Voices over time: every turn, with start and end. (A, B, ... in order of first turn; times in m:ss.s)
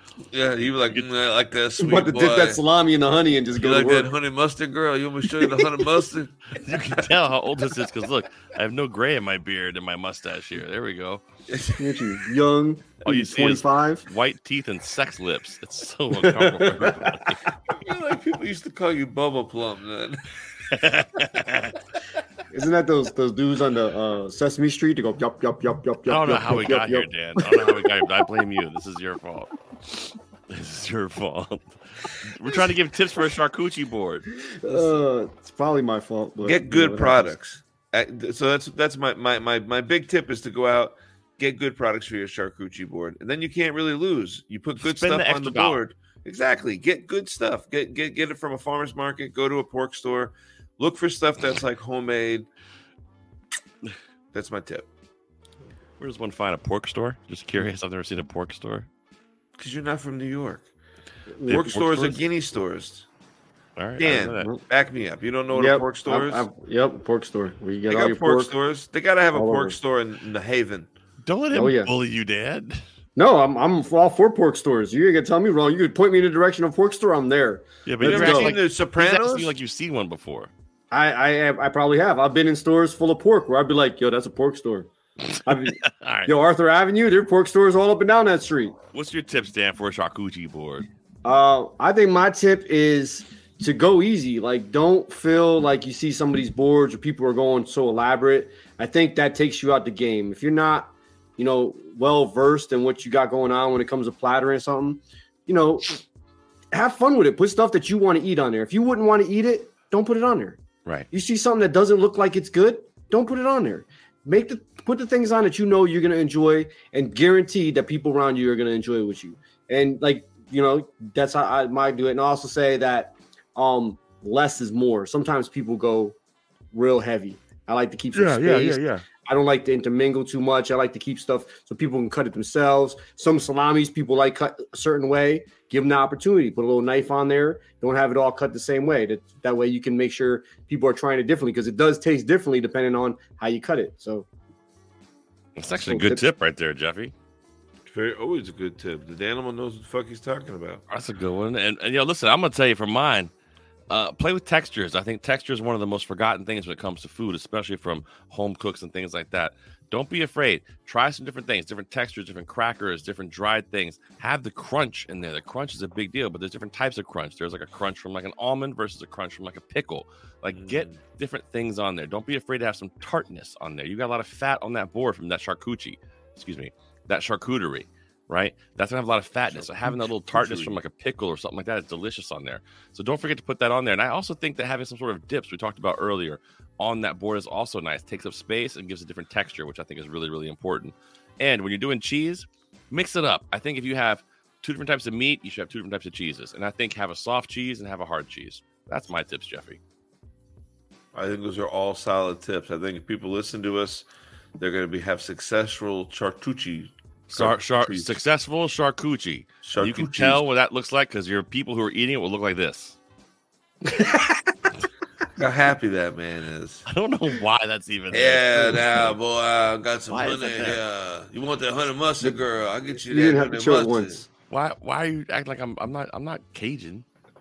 0:00.3-0:02.6 A
0:01.8-0:04.1 B
0:03.6-0:06.4 A
0:06.6-0:11.2 C
0:11.5-0:11.8 A
0:11.8-0:14.0 B
0:13.0-0:17.4 C
0:16.2-0:17.1 B
0:17.5-0:20.3 A
0:20.7-0:21.8 C
0:22.5-0:27.8 B
0:26.1-0:34.2 C
0:34.6-0:37.3 B
0:34.6-0:35.0 A
0:36.4-0:52.5 A
0:44.8-0:45.8 C
0:54.3-0:54.9 A
0:56.0-0:58.9 C
0:59.6-1:00.7 A
1:01.4-1:02.1 B
1:01.5-1:03.0 A
1:01.5-1:02.2 C
1:03.8-1:04.5 C
1:04.0-1:06.5 A
1:05.5-1:08.5 B
1:07.8-1:10.9 A
1:09.3-1:09.8 B
1:11.2-1:12.8 C
1:11.5-1:11.9 B
1:13.2-1:18.6 B
1:17.8-1:20.5 C
1:18.0-1:19.5 A
1:20.9-1:24.9 B
1:25.3-1:26.3 C
1:25.4-1:28.7 B
1:28.9-1:30.9 C
1:31.2-1:46.0 B
1:46.7-1:50.6 B
1:51.1-2:06.2 B
2:06.7-2:24.2 B
2:08.1-2:09.0 C
2:25.6-2:27.1 C
2:25.7-2:26.3 B
2:27.8-2:30.8 A
2:30.9-2:33.3 C
2:33.9-3:19.8 C
2:50.5-2:51.0 A
2:59.5-3:00.8 A
3:21.1-3:24.0 A
3:24.6-3:28.2 A
3:27.3-3:33.0 C
3:29.6-3:30.4 A
3:33.9-3:34.3 B
3:35.4-3:36.8 A
3:36.8-3:39.1 C
3:38.1-3:44.2 A
3:40.1-3:40.8 C
3:43.0-3:44.3 B
3:44.5-3:47.0 C